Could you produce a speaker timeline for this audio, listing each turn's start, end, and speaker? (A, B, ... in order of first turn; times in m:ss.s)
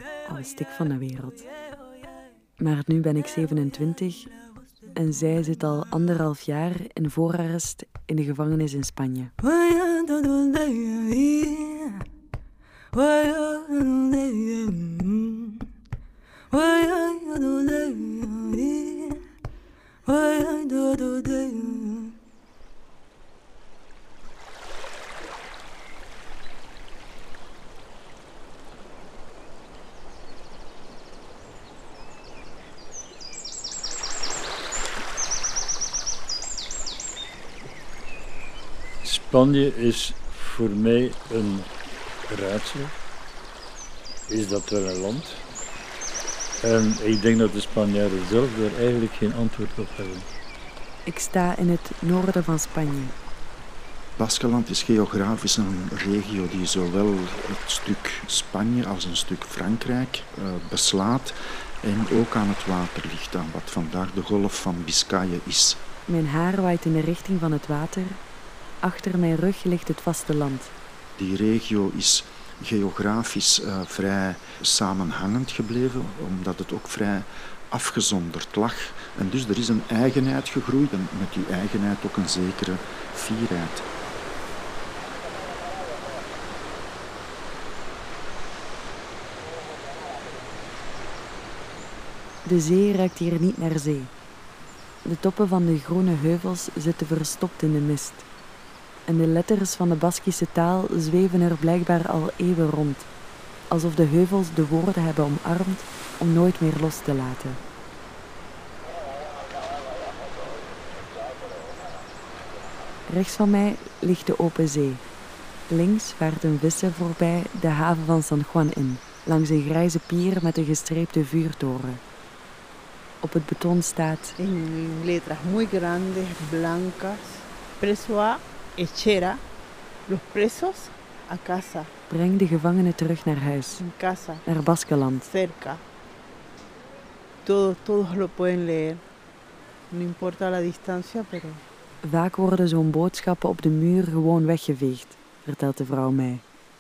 0:00.3-0:01.4 A
0:02.6-0:04.3 A
0:04.9-0:09.3 A
0:39.0-0:41.7 B
0:42.3-0:42.9 B
0:44.3-0:45.4 B
0:46.6-0:50.3 B
0:51.1-0:53.1 A
0:54.2-1:05.8 C
1:06.1-1:08.2 A
1:08.8-1:10.7 A
1:11.2-1:23.8 C
1:32.4-1:34.1 A
1:35.0-1:38.2 A
1:39.1-1:43.1 A
1:43.7-1:47.6 A
1:53.1-1:55.0 A
1:55.7-2:02.0 A
2:03.2-2:04.4 A
2:04.4-2:09.4 D
2:10.1-2:11.9 D
2:12.1-2:13.8 A
2:13.8-2:14.4 D
2:14.4-2:15.3 A
2:15.3-2:15.8 D
2:17.4-2:19.0 D
2:19.9-2:21.6 D
2:22.0-2:26.4 A